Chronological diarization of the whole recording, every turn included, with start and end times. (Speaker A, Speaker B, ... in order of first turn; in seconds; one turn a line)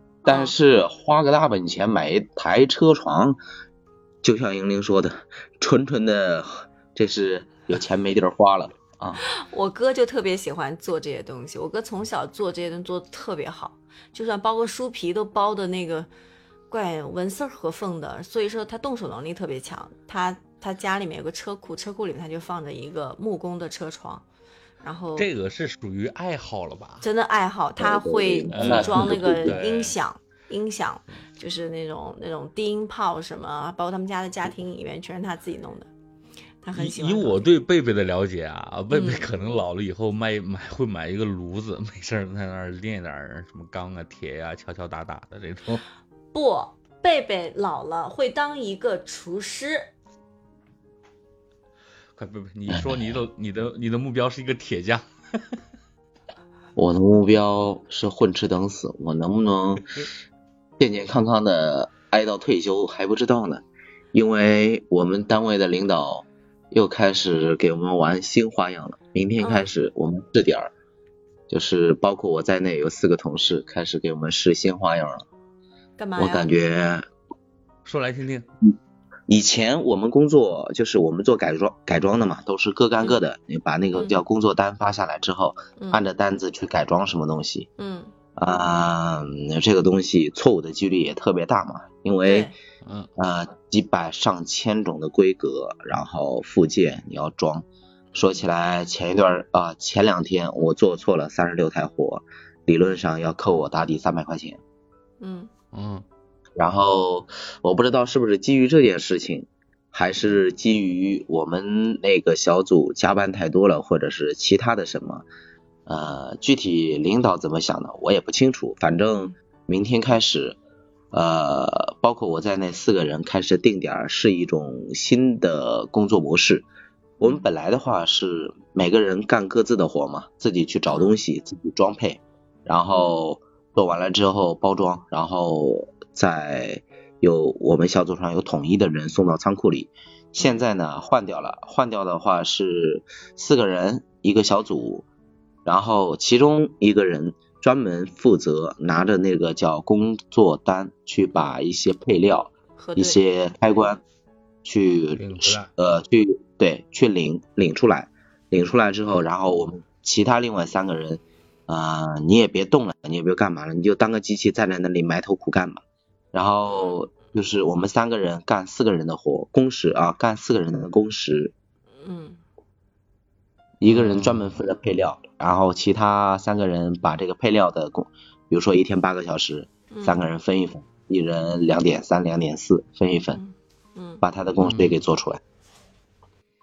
Speaker A: 0.2-3.4
Speaker B: 0.3-0.5
Speaker A: 4.2-9.2
Speaker B: 9.2-16.1
Speaker B: 16.7-24.2
Speaker B: 24.8-25.3
Speaker C: 25.2-27.1
Speaker B: 27.0-35.9
Speaker A: 27.8-29.6
Speaker C: 28.5-29.9
Speaker B: 36.6-37.5
Speaker C: 36.7-45.8
Speaker B: 38.9-39.3
Speaker B: 46.3-49.9
Speaker C: 52.1-55.0
Speaker A: 52.7-53.0
Speaker A: 56.8-59.9
Speaker A: 60.8-70.7
Speaker B: 69.4-69.7
Speaker A: 71.5-75.2
Speaker B: 76.0-76.5
Speaker A: 76.2-77.0
Speaker C: 77.8-78.5
Speaker A: 79.3-87.7
Speaker B: 83.9-84.2
Speaker B: 85.8-86.1
Speaker B: 87.8-88.1
Speaker A: 88.3-92.5
Speaker B: 92.2-92.5
Speaker C: 92.8-93.1
Speaker A: 93.2-104.6
Speaker B: 105.2-105.5
Speaker C: 105.7-106.0
Speaker A: 106.6-115.2
Speaker A: 115.9-120.6
Speaker A: 121.1-126.7
Speaker B: 127.2-127.5
Speaker A: 127.2-145.0
Speaker B: 130.9-131.1
Speaker B: 132.9-133.2
Speaker B: 140.4-140.6
Speaker A: 145.6-154.0
Speaker B: 152.8-153.2
Speaker A: 154.6-165.8
Speaker C: 155.2-155.7
Speaker A: 166.3-171.5
Speaker B: 166.7-167.0
Speaker B: 172.0-172.4
Speaker A: 173.8-183.4
Speaker C: 173.8-174.6
Speaker B: 179.9-180.3
Speaker B: 183.3-184.2
Speaker A: 184.2-185.4
Speaker C: 184.6-185.0